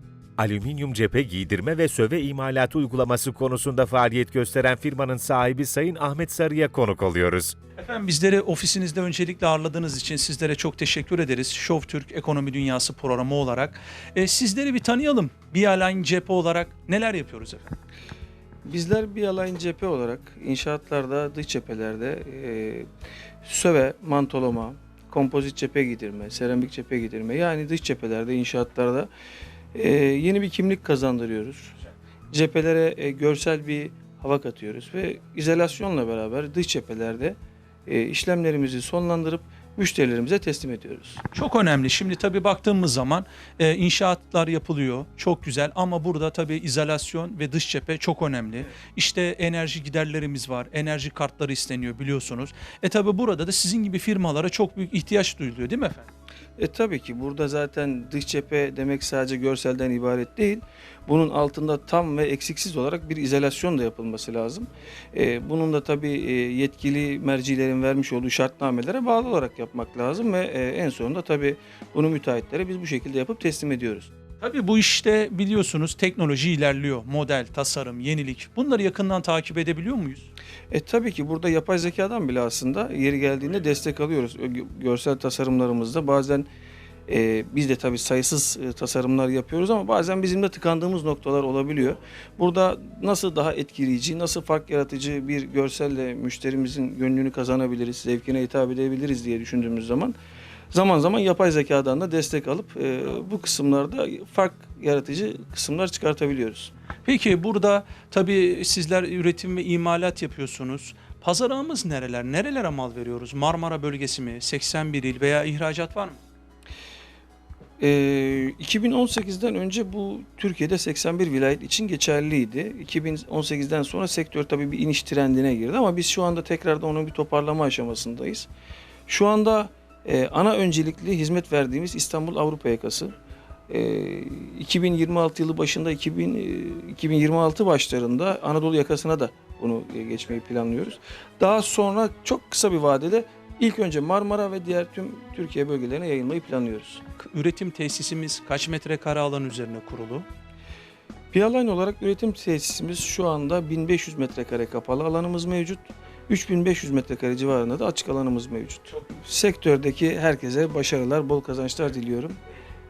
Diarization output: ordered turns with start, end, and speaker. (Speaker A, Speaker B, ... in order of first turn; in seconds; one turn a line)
Speaker A: 0.4-7.5
Speaker B: 7.8-17.7
Speaker C: 18.7-22.9
Speaker C: 23.4-29.1
Speaker C: 29.7-31.8
Speaker C: 32.3-41.2
Speaker B: 41.3-56.1
Speaker C: 56.6-74.1
Speaker B: 74.4-80.3
Speaker C: 80.7-86.5
Speaker C: 87.1-100.2
Speaker C: 100.7-106.7
Speaker B: 107.0-116.2
Speaker C: 117.8-128.5
Speaker C: 129.1-133.1
Speaker C: 133.7-147.0
Speaker B: 147.2-150.2
Speaker C: 151.3-162.4